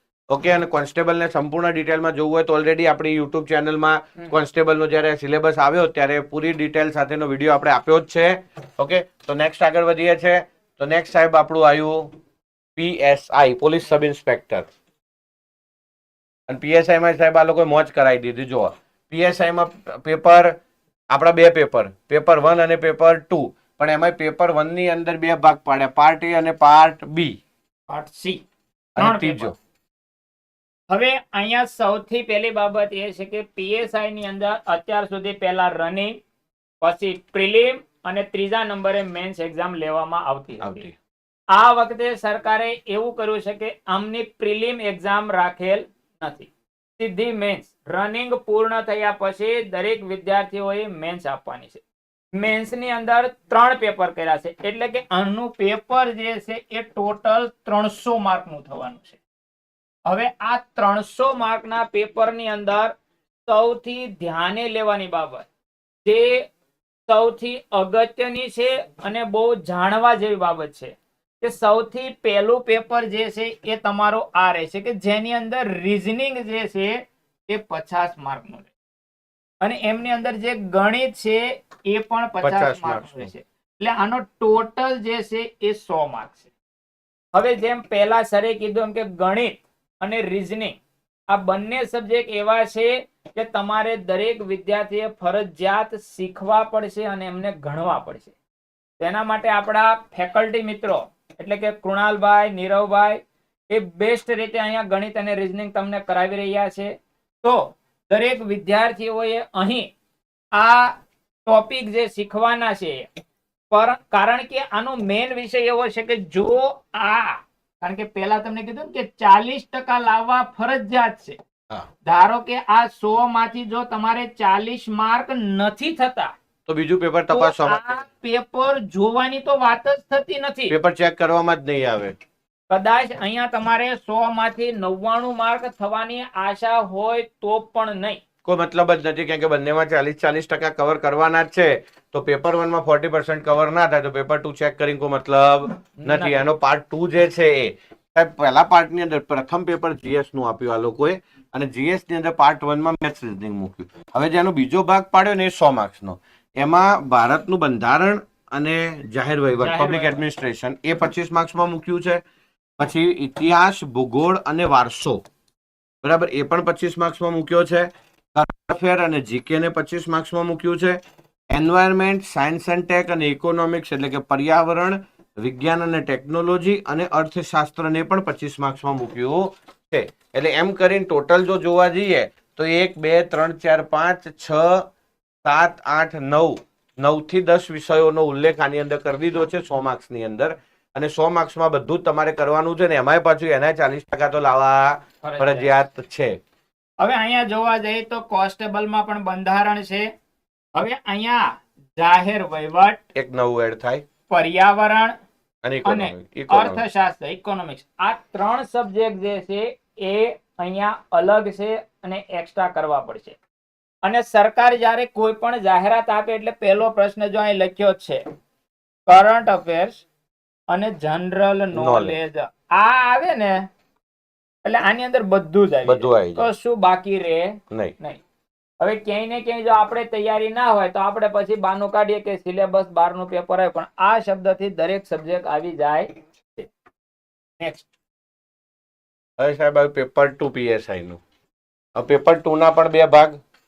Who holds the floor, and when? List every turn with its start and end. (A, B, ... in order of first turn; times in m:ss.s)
0:00.3-0:12.2 A
0:12.8-0:14.7 A
0:16.5-0:20.6 A
0:21.1-0:27.4 A
0:27.9-0:28.5 B
0:29.0-0:29.5 B
0:29.0-0:29.6 A
0:30.9-0:36.2 B
0:36.8-0:40.9 B
0:40.6-0:41.0 A
0:41.5-0:51.8 B
0:52.4-0:59.2 B
1:00.1-1:03.0 B
1:03.5-1:05.5 B
1:06.0-1:06.5 B
1:07.1-1:18.7 B
1:19.6-1:26.5 B
1:22.4-1:23.3 A
1:27.3-1:30.8 B
1:31.3-1:38.3 B
1:39.0-1:49.9 B
1:50.5-1:51.0 B
1:51.5-1:53.1 B
1:53.7-2:01.4 B
2:02.0-2:06.3 B
2:06.7-2:08.0 A
2:07.3-2:10.8 B
2:10.7-2:12.2 A
2:12.7-2:18.2 B
2:18.4-2:42.2 A
2:26.0-2:26.4 B
2:39.6-2:40.2 B
2:42.8-2:45.2 A
2:46.0-3:04.9 A
3:05.4-3:16.4 A
3:15.2-3:15.7 B
3:17.0-3:20.1 B
3:20.8-3:23.0 B
3:23.2-3:24.0 A
3:24.3-3:25.2 B
3:25.6-3:26.8 A
3:25.8-3:33.4 B
3:34.0-3:38.2 B
3:39.1-3:40.0 B
3:40.7-3:43.7 B
3:41.8-3:42.2 A
3:44.6-3:48.2 B
3:45.9-3:46.5 A
3:48.8-3:56.7 B
3:57.6-3:57.9 B
3:59.4-4:01.2 A
4:02.0-4:03.4 A